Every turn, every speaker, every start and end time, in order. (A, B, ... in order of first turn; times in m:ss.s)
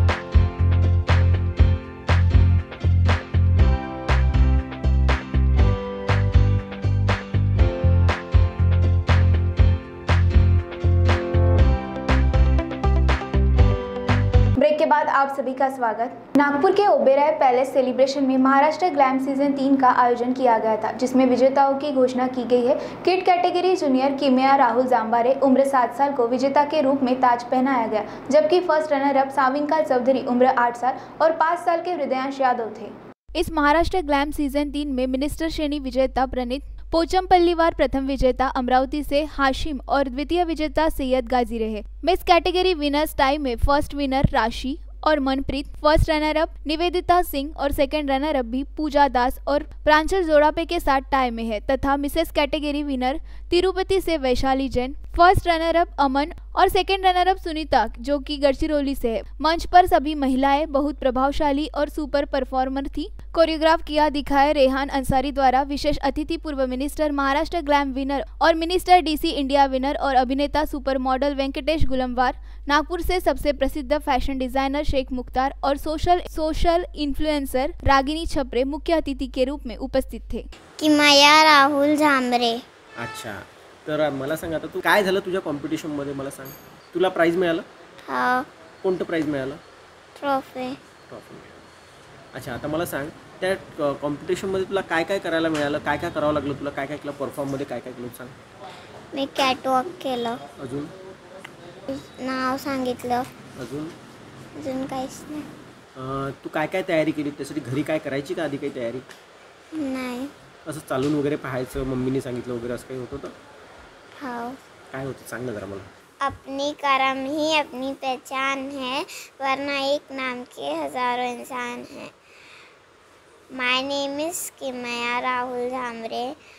0:14.6-0:32.9 A
0:33.3-1:20.4 B
1:20.8-1:22.6 C
1:23.0-1:27.6 D
1:28.1-1:28.4 C
1:28.8-1:29.6 D
1:30.2-1:30.7 C
1:31.1-1:31.4 D
1:32.3-1:38.3 D
1:39.1-1:40.4 C
1:40.6-1:40.9 D
1:41.9-1:43.2 C
1:43.6-1:43.9 D
1:44.6-1:45.4 C
1:46.0-1:49.0 D
1:49.7-1:50.3 C
1:50.6-1:53.3 D
1:54.2-1:54.6 C
1:54.9-1:55.9 D
1:56.2-2:02.1 C
2:03.6-2:06.3 C